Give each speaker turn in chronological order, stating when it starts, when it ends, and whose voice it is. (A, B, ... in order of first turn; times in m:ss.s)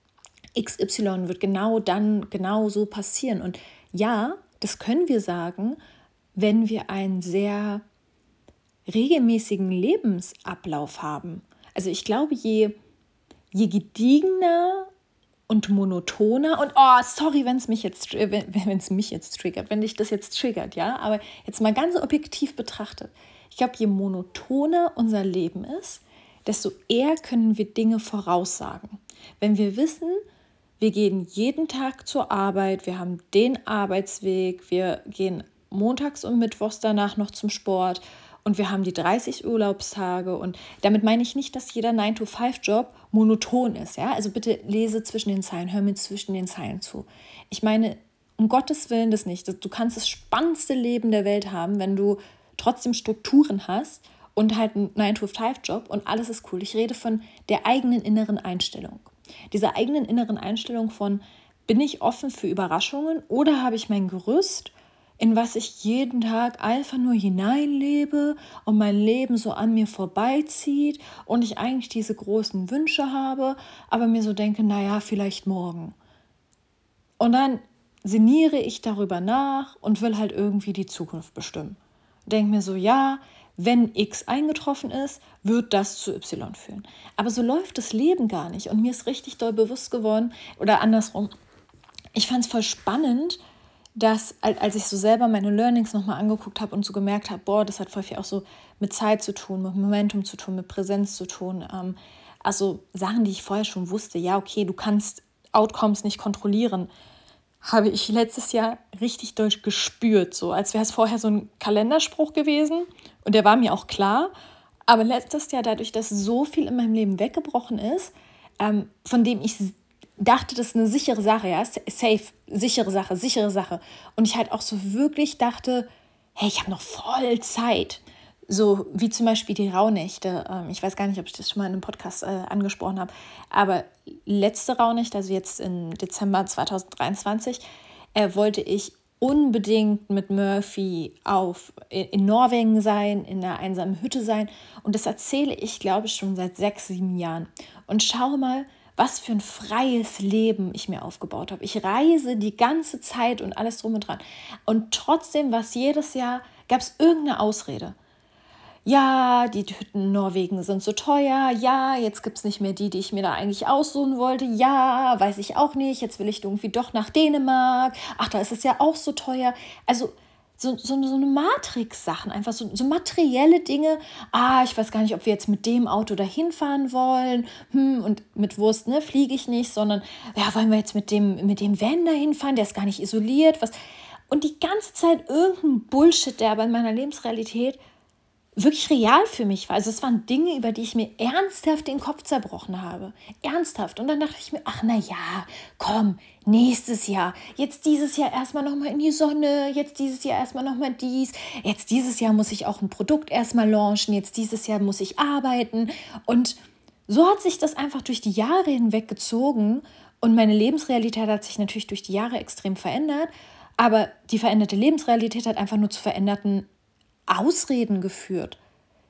0:00.6-0:05.8 A
0:06.4-0:07.8 A
0:08.9-0:12.8 A
0:13.5-0:14.9 A
0:15.5-0:30.2 A
0:30.8-1:16.0 A
1:17.2-1:31.3 A
1:32.1-1:33.4 A
1:34.0-1:46.9 A
1:47.6-1:54.3 A
1:54.9-2:17.6 A
2:18.2-2:38.0 A
2:38.9-3:03.7 A
3:04.3-3:07.8 A
3:08.6-3:36.7 A
3:37.3-3:38.6 A